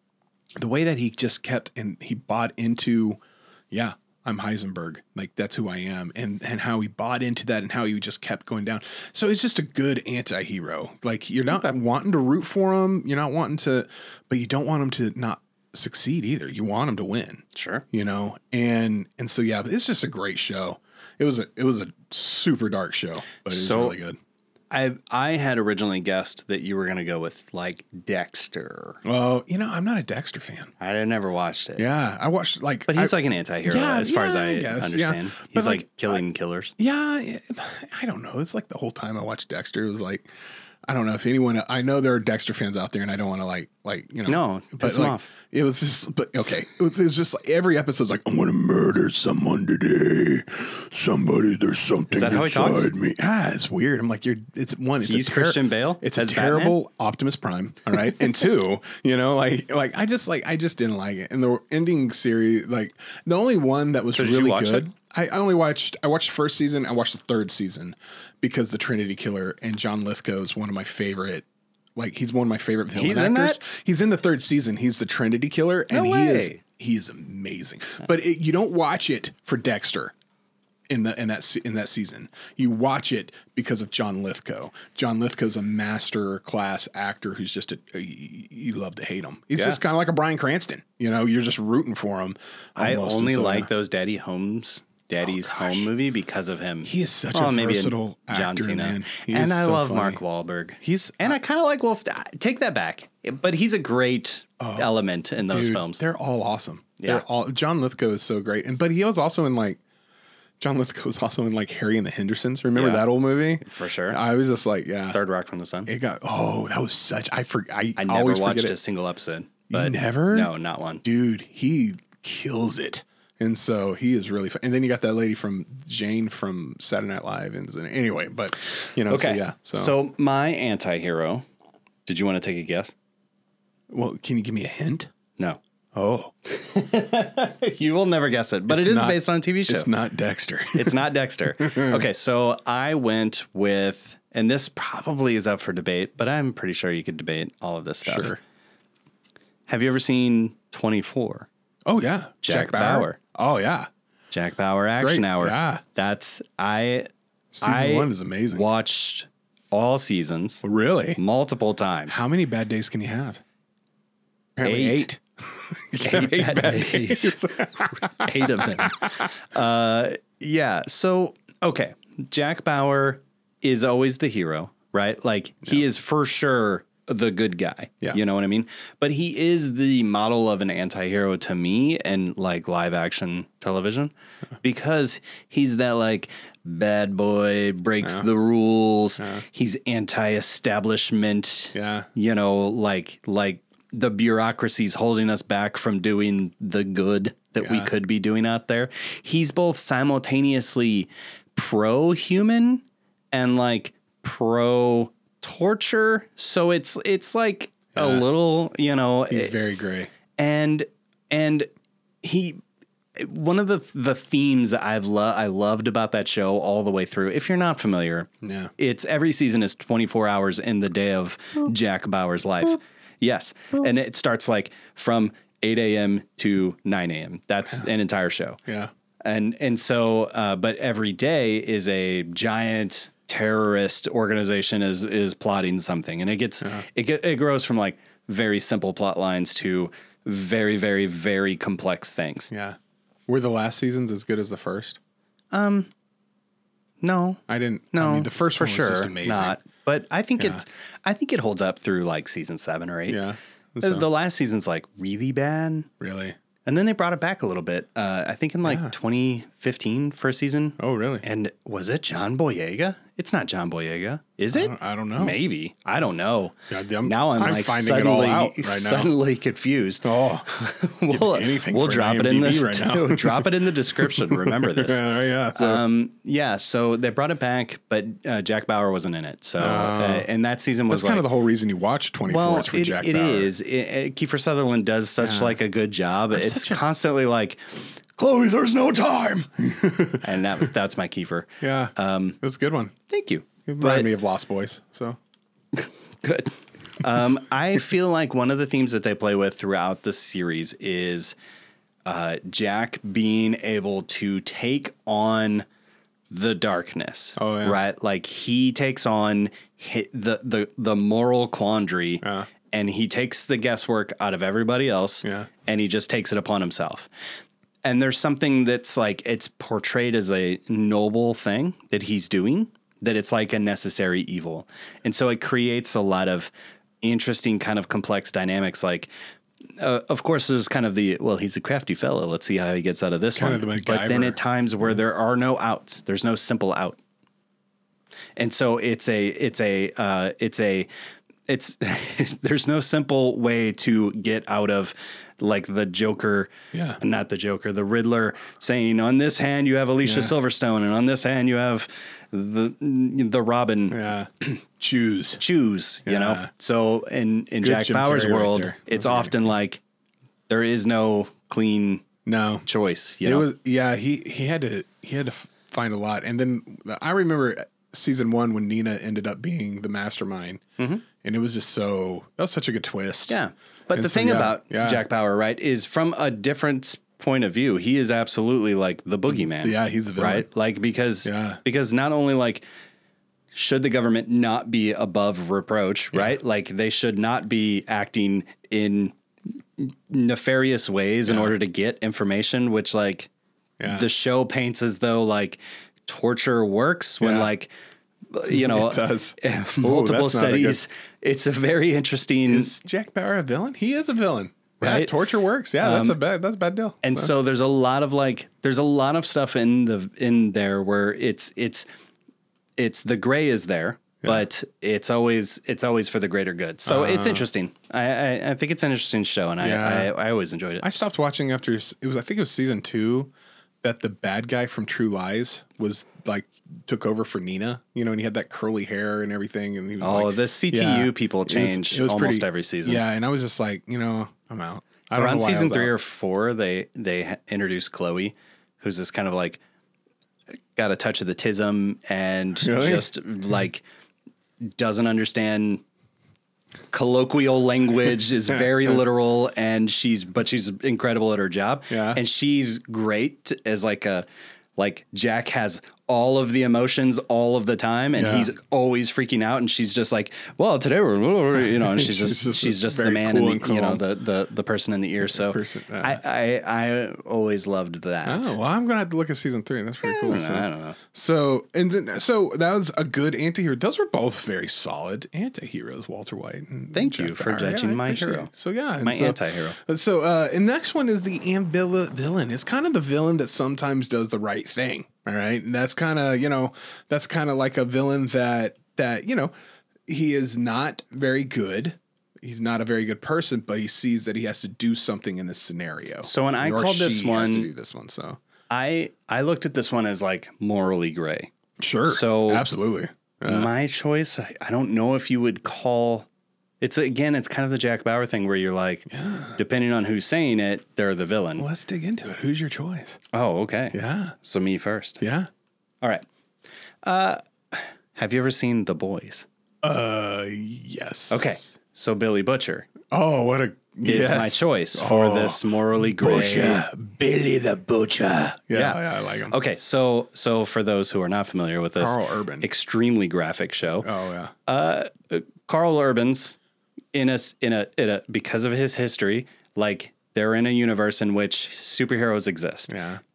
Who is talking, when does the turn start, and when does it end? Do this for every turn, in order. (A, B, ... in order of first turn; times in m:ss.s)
0:00.6-0:03.2 A
0:03.7-0:24.2 A
0:17.6-0:17.8 B
0:23.5-0:24.0 B
0:24.7-0:29.0 B
0:29.0-0:30.7 A
0:30.8-0:31.8 B
0:31.8-0:36.2 A
0:32.9-0:36.8 B
0:36.8-0:40.3 A
0:40.9-1:11.4 A
0:44.3-0:45.3 B
0:52.1-0:52.9 B
0:55.0-0:56.8 B
1:04.2-1:04.9 B
1:12.0-1:20.1 A
1:12.9-1:13.6 B
1:15.9-1:16.6 B
1:20.9-1:33.7 A
1:32.8-1:46.0 B
1:35.2-1:35.9 A
1:36.8-1:40.2 A
1:40.8-1:41.4 A
1:44.6-1:44.9 A
1:45.5-1:49.8 A
1:50.6-1:55.2 A
1:52.8-1:53.1 B
1:53.6-1:54.2 B
1:55.1-1:55.9 B
1:55.9-1:58.8 A
1:58.0-2:01.0 B
1:59.7-2:00.5 A
2:01.0-2:10.0 A
2:08.7-2:11.4 B
2:12.1-2:12.9 B
2:13.9-2:15.1 A
2:16.0-2:16.3 A
2:16.5-2:19.9 B
2:18.7-2:21.0 A
2:20.8-2:28.4 B
2:21.6-2:22.1 A
2:28.0-2:28.4 A
2:29.7-2:31.5 B
2:31.9-2:33.9 A
2:32.4-2:33.2 B
2:34.3-2:37.1 B
2:35.0-2:35.8 A
2:37.5-2:38.6 A
2:37.6-2:40.6 B
2:40.6-2:41.2 A
2:41.2-2:42.2 B
2:42.1-2:43.4 A
2:44.6-2:49.3 A
2:44.6-2:45.1 B
2:46.0-3:29.6 B
3:08.0-3:08.3 A
3:09.2-3:09.4 A
3:11.7-3:12.1 A
3:17.6-3:17.9 A
3:28.0-3:28.3 A
3:29.3-3:30.1 A
3:30.4-3:31.7 B
3:32.2-3:32.6 B
3:33.2-3:48.6 B
3:38.4-3:38.7 A
3:48.7-3:48.9 A
3:49.2-4:02.5 B
4:02.5-4:05.0 A
4:05.5-4:05.9 B
4:07.0-4:07.4 B
4:07.5-4:09.6 A
4:07.9-4:13.2 B
4:13.1-4:14.1 A
4:13.8-4:15.9 B
4:16.0-4:16.4 A
4:16.6-4:41.3 B
4:18.6-4:18.9 A
4:20.8-4:21.2 A
4:24.5-4:25.4 A
4:26.7-4:29.1 A
4:30.0-4:30.5 A
4:31.1-4:35.8 A
4:39.6-4:40.3 A
4:40.9-4:43.5 A
4:42.3-4:49.5 B
4:45.2-4:45.6 A
4:46.3-4:46.8 A
4:49.6-4:50.7 A
4:50.2-4:52.4 B
4:51.6-4:52.9 A
4:53.1-4:54.1 B
4:53.7-4:55.2 A
4:55.7-5:01.4 B
5:02.0-5:05.7 B
5:06.3-5:17.1 B
5:07.4-5:07.8 A
5:12.2-5:12.5 A
5:15.2-5:15.5 A
5:17.8-5:26.5 B
5:27.0-5:29.1 B
5:29.8-5:37.0 B
5:33.3-5:34.4 A
5:38.4-5:40.9 B
5:41.5-5:54.0 B
5:46.7-5:47.0 A
5:50.0-5:50.3 A
5:53.9-5:55.4 A
5:55.4-5:59.8 B
5:56.1-5:56.5 A
5:57.6-5:59.5 A
6:00.5-6:02.1 B
6:02.3-6:02.6 A
6:02.7-6:03.5 B
6:03.2-6:10.6 A
6:11.2-6:13.4 A
6:13.3-6:22.6 B
6:13.9-6:15.0 A
6:19.3-6:20.5 A
6:21.2-6:21.6 A
6:23.5-6:29.2 B
6:29.8-6:33.3 B
6:31.3-6:31.5 A
6:33.8-6:34.1 A
6:33.9-6:37.7 B
6:37.2-6:37.5 A
6:38.3-6:42.7 B
6:38.5-6:40.8 A
6:42.5-6:47.3 A
6:44.8-6:45.2 B
6:45.8-6:46.2 B
6:47.0-6:51.9 B
6:52.8-7:00.9 B
6:56.9-6:57.5 A
6:59.6-7:00.1 A
7:00.8-7:03.3 A
7:03.8-7:15.9 A
7:10.0-7:13.0 B
7:15.2-7:19.6 B
7:20.8-7:23.8 B
7:22.6-7:23.1 A
7:24.6-7:25.8 B
7:26.9-7:48.6 B
7:31.9-7:32.2 A
7:38.2-7:38.5 A
7:41.6-7:44.0 A
7:45.2-7:46.2 A
7:48.2-8:09.5 A
7:50.0-7:51.0 B
7:56.9-7:58.5 B
7:59.0-7:59.8 B
8:10.1-8:18.4 A
8:16.2-8:17.7 B
8:18.7-8:21.5 B
8:21.8-8:23.7 A
8:22.0-8:22.7 B
8:23.4-8:26.3 B
8:26.8-8:31.7 B
8:29.1-8:29.6 A
8:31.6-8:33.2 A
8:33.3-8:35.2 B
8:33.9-8:34.4 A
8:35.2-8:35.5 A
8:37.0-8:39.5 B
8:39.8-8:41.7 A
8:41.3-8:42.9 B
8:43.1-8:49.6 A
8:44.0-8:46.8 B
8:48.7-8:54.1 B
8:52.0-8:52.7 A
8:54.0-8:54.5 A
8:54.7-8:56.6 B
8:57.1-9:03.0 B
9:02.9-9:03.2 A